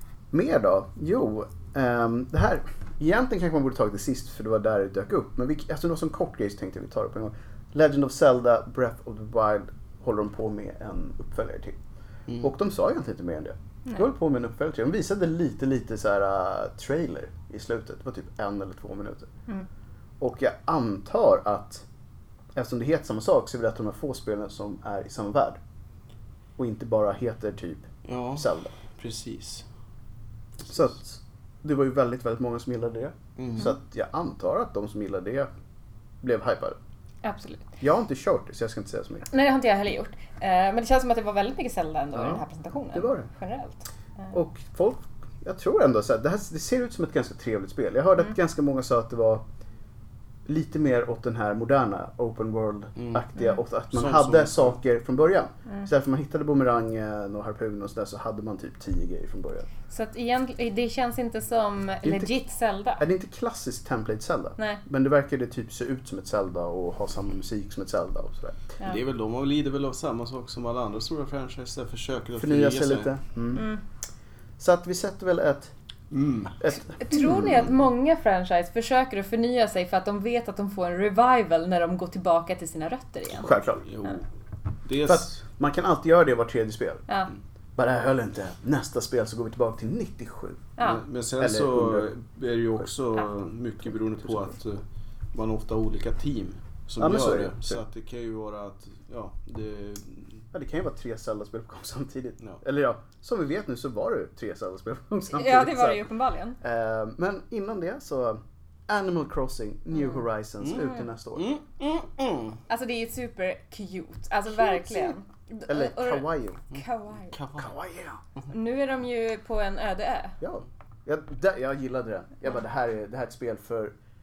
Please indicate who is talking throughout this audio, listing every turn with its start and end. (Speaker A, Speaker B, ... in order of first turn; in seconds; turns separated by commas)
Speaker A: 0.3-11.8, Speaker A: 12.4-19.3, Speaker A: 20.2-21.9, Speaker A: 22.5-25.6, Speaker A: 26.6-28.7, Speaker B: 28.0-29.6, Speaker A: 30.6-35.5, Speaker B: 33.4-33.7, Speaker A: 36.2-36.8, Speaker C: 37.2-37.7, Speaker A: 37.8-39.3, Speaker C: 39.3-44.3, Speaker A: 42.1-43.3, Speaker A: 44.3-49.4, Speaker A: 50.5-59.7, Speaker B: 53.0-53.3, Speaker B: 53.9-54.7, Speaker C: 59.9-63.0, Speaker A: 62.0-62.3, Speaker A: 63.0-68.7, Speaker B: 68.8-73.1, Speaker A: 72.4-73.7, Speaker C: 73.5-73.8, Speaker A: 74.6-75.7, Speaker B: 76.1-76.6, Speaker A: 76.6-77.7, Speaker C: 76.7-83.5, Speaker A: 83.3-83.8, Speaker B: 83.8-84.2, Speaker B: 84.8-85.3, Speaker A: 85.0-87.0, Speaker A: 87.8-90.7, Speaker C: 90.8-91.0, Speaker B: 90.8-94.8, Speaker A: 91.4-92.1, Speaker B: 95.3-100.4, Speaker A: 97.0-97.8, Speaker A: 100.5-106.1, Speaker C: 105.3-106.6, Speaker A: 106.6-111.5, Speaker C: 109.9-111.0, Speaker B: 111.3-112.6, Speaker C: 112.7-117.3, Speaker A: 114.5-116.6, Speaker B: 117.2-117.7, Speaker A: 117.6-118.2, Speaker C: 118.5-120.4, Speaker A: 120.4-123.9